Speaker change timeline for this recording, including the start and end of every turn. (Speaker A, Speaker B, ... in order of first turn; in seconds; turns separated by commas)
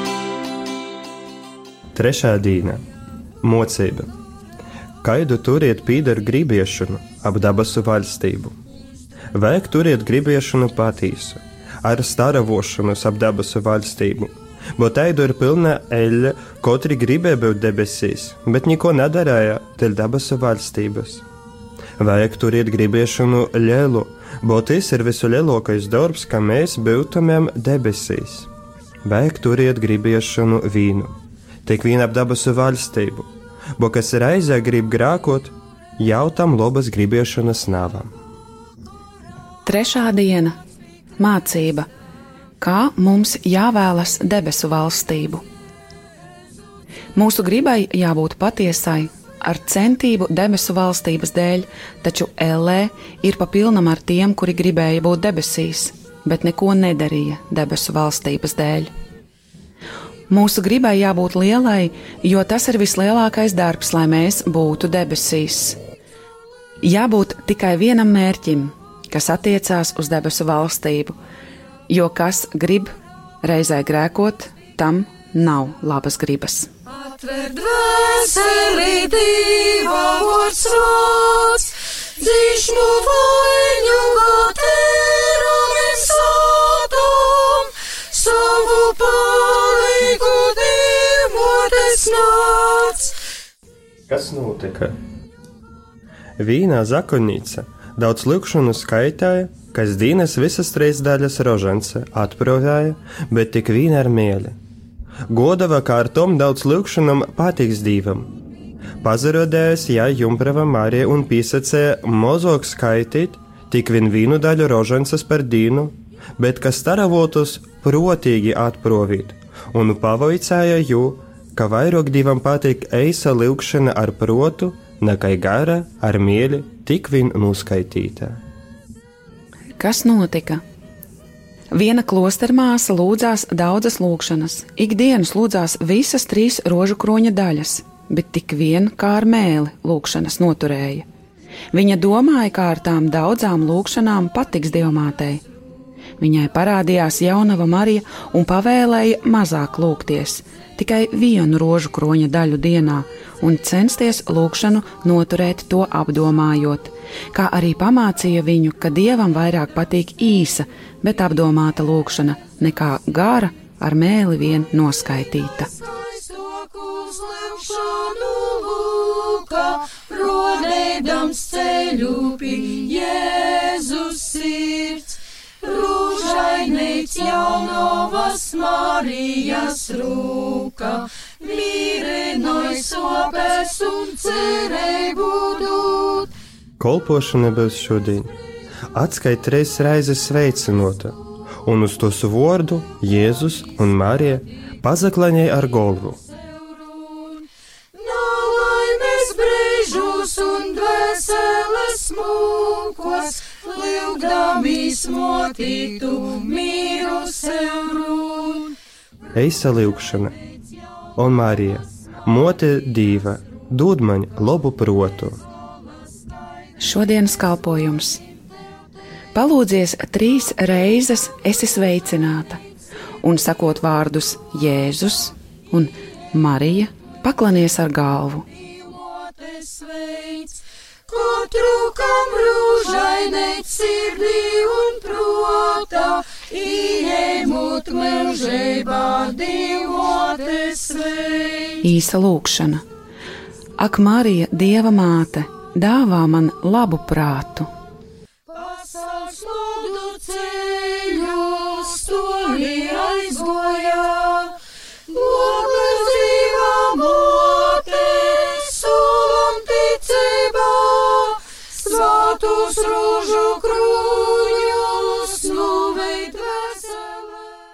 Speaker A: 1.9-2.8, Speaker A: 3.4-4.1, Speaker A: 5.0-8.5, Speaker A: 9.3-21.2, Speaker A: 22.0-28.5, Speaker A: 29.1-31.1, Speaker A: 31.6-38.1, Speaker B: 39.6-40.5, Speaker B: 41.2-41.9, Speaker B: 42.6-45.4, Speaker B: 47.1-58.9, Speaker B: 60.3-65.8, Speaker B: 66.8-71.2, Speaker B: 71.9-76.7, Speaker C: 76.9-93.1, Speaker A: 94.1-94.9, Speaker A: 96.4-104.6, Speaker A: 105.3-108.3, Speaker A: 109.0-128.4, Speaker B: 129.8-130.6, Speaker B: 131.7-141.1, Speaker B: 141.7-145.4, Speaker B: 146.2-165.7, Speaker C: 165.8-186.3, Speaker A: 186.8-188.3, Speaker A: 188.9-196.2, Speaker C: 196.9-208.8, Speaker A: 209.3-210.3, Speaker A: 211.2-215.4, Speaker B: 216.8-218.2, Speaker B: 219.3-222.6, Speaker B: 223.2-228.4, Speaker C: 228.8-241.8, Speaker B: 241.8-242.8, Speaker B: 243.8-247.7, Speaker C: 248.5-267.5